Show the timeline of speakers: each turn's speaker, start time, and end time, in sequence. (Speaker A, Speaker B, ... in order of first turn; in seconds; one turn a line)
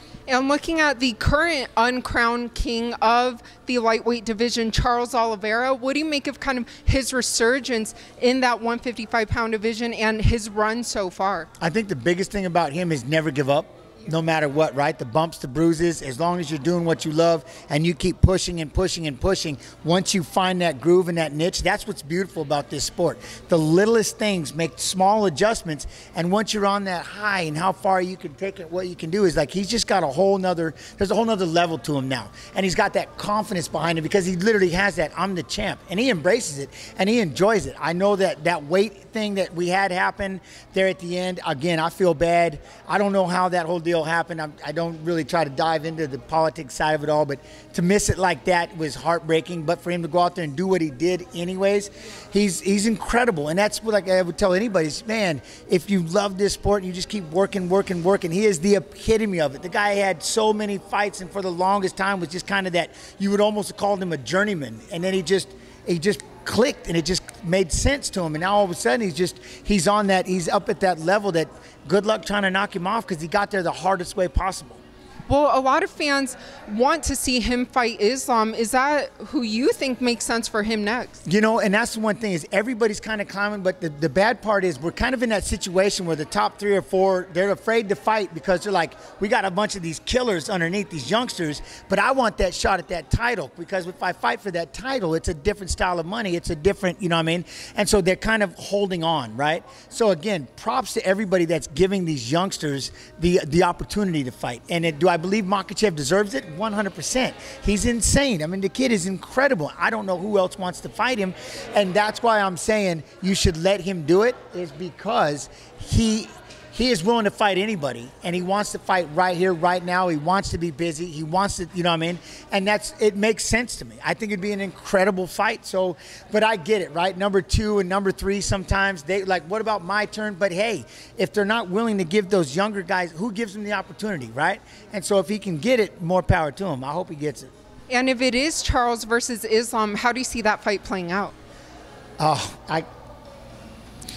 Speaker A: 0.3-11.5
Speaker B: 11.6-74.8
Speaker A: 75.3-81.2
Speaker B: 81.2-137.5
Speaker A: 137.9-141.3
Speaker B: 142.2-142.9